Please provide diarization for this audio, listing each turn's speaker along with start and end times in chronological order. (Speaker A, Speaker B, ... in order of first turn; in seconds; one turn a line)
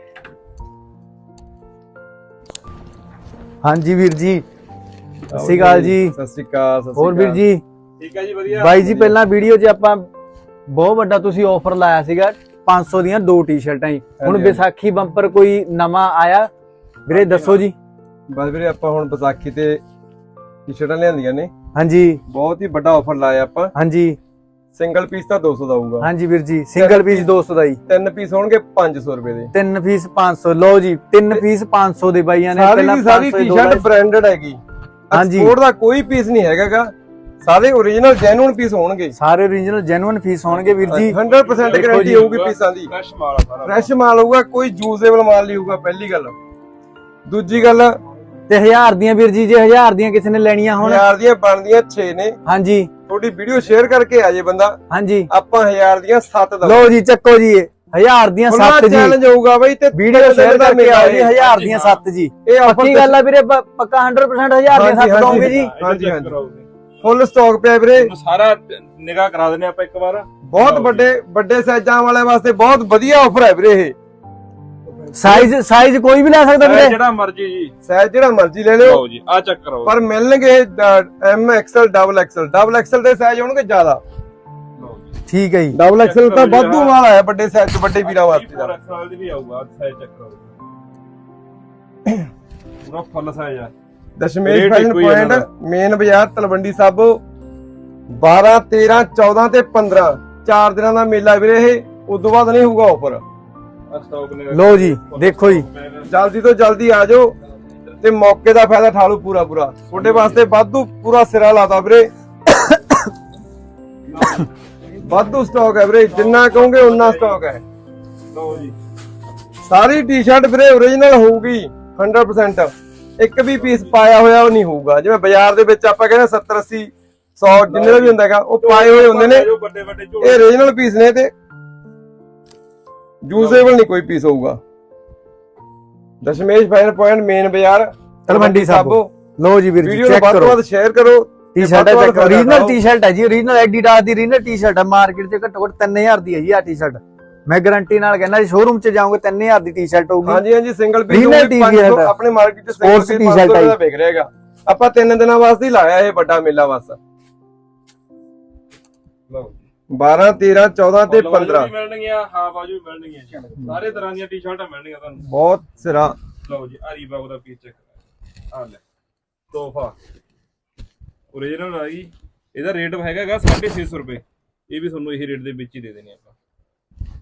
Speaker A: 3.6-4.4
Speaker B: 5.3-7.4
Speaker A: 5.3-6.1
Speaker A: 7.0-7.6
Speaker C: 8.0-8.8
Speaker A: 8.5-10.1
Speaker B: 8.7-9.2
Speaker A: 10.7-16.5
Speaker B: 14.2-14.6
Speaker A: 17.1-17.7
Speaker C: 17.1-17.6
Speaker B: 18.3-19.8
Speaker B: 20.7-21.5
Speaker A: 21.8-22.2
Speaker B: 22.3-23.7
Speaker A: 23.7-24.2
Speaker B: 24.7-26.1
Speaker A: 26.0-27.8
Speaker B: 26.8-27.3
Speaker B: 27.9-29.5
Speaker A: 29.5-33.8
Speaker B: 32.5-34.6
Speaker B: 35.1-39.1
Speaker A: 35.1-35.5
Speaker A: 39.2-41.1
Speaker C: 40.5-43.9
Speaker B: 40.9-42.9
Speaker A: 41.7-42.2
Speaker B: 43.6-46.3
Speaker B: 47.2-48.0
Speaker A: 48.5-51.0
Speaker B: 50.8-52.4
Speaker A: 52.5-52.9
Speaker B: 53.1-54.8
Speaker A: 54.9-55.3
Speaker B: 55.3-57.0
Speaker A: 56.6-59.2
Speaker B: 58.5-61.3
Speaker A: 59.9-65.7
Speaker C: 61.0-62.0
Speaker B: 62.5-63.2
Speaker B: 64.7-66.3
Speaker C: 65.2-66.7
Speaker B: 67.0-68.1
Speaker C: 68.0-71.1
Speaker B: 70.5-74.0
Speaker A: 75.1-77.0
Speaker C: 76.6-77.7
Speaker B: 77.9-79.0
Speaker C: 78.8-80.0
Speaker B: 79.8-84.0
Speaker C: 84.8-85.1
Speaker A: 85.3-85.8
Speaker B: 85.7-88.7
Speaker C: 85.9-87.0
Speaker C: 88.0-90.6
Speaker C: 92.8-93.7
Speaker B: 94.2-97.2
Speaker C: 94.4-95.5
Speaker B: 98.1-103.2
Speaker C: 103.9-106.1
Speaker A: 104.5-105.7
Speaker B: 106.1-107.3
Speaker B: 108.0-112.1
Speaker C: 109.9-110.5
Speaker C: 114.1-114.5
Speaker B: 115.0-117.6
Speaker C: 116.1-117.5
Speaker C: 118.3-118.8
Speaker B: 119.7-129.5
Speaker C: 123.5-123.9
Speaker C: 127.6-130.5
Speaker B: 130.2-131.3
Speaker B: 133.2-134.6
Speaker C: 133.4-133.8
Speaker B: 136.2-139.1
Speaker A: 138.3-140.6
Speaker B: 139.8-142.8
Speaker A: 141.6-150.4
Speaker B: 150.2-157.0
Speaker A: 151.1-152.1
Speaker A: 152.8-153.8
Speaker C: 159.3-159.6
Speaker B: 159.9-161.7
Speaker C: 161.1-165.2
Speaker B: 165.2-166.2
Speaker C: 166.4-167.9
Speaker C: 168.5-168.8
Speaker C: 169.5-169.9
Speaker C: 171.3-176.3